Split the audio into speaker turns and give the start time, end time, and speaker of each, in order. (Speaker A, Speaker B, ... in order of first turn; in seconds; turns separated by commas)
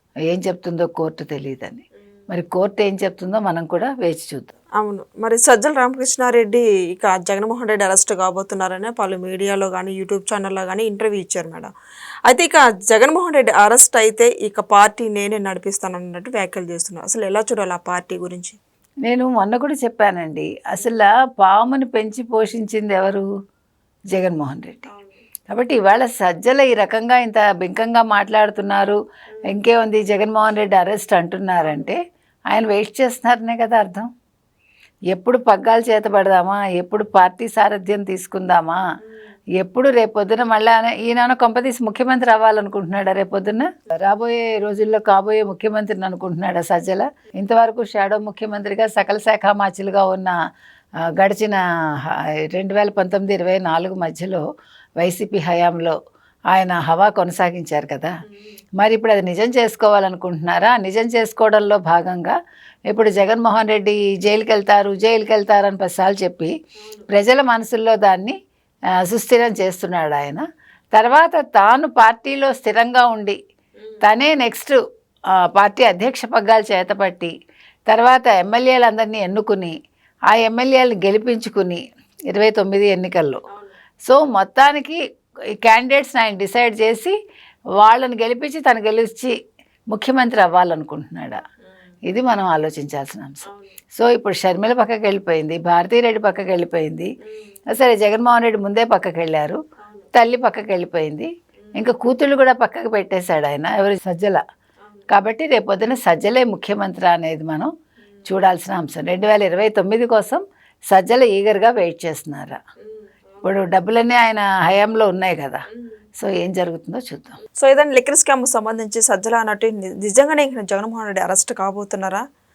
Speaker A: 0.3-4.5, Speaker B: 4.8-11.7, Speaker B: 12.3-18.6, Speaker A: 19.1-23.3, Speaker A: 24.1-24.9, Speaker B: 24.9-25.2, Speaker A: 25.5-34.1, Speaker A: 35.1-38.8, Speaker A: 39.6-50.4, Speaker A: 51.2-54.4, Speaker A: 55.0-56.0, Speaker A: 56.5-58.1, Speaker A: 58.8-66.5, Speaker B: 66.8-67.1, Speaker A: 67.1-68.4, Speaker A: 69.0-73.4, Speaker A: 74.0-74.8, Speaker A: 75.5-77.3, Speaker A: 77.9-79.7, Speaker A: 80.3-83.4, Speaker A: 84.1-85.0, Speaker A: 85.6-87.2, Speaker A: 87.8-89.4, Speaker A: 89.9-91.4, Speaker A: 92.1-97.1, Speaker A: 97.7-99.6, Speaker B: 99.8-100.1, Speaker A: 100.1-104.4, Speaker A: 105.1-107.7, Speaker A: 108.3-112.6, Speaker A: 113.4-115.6, Speaker A: 116.2-117.4, Speaker B: 117.6-122.2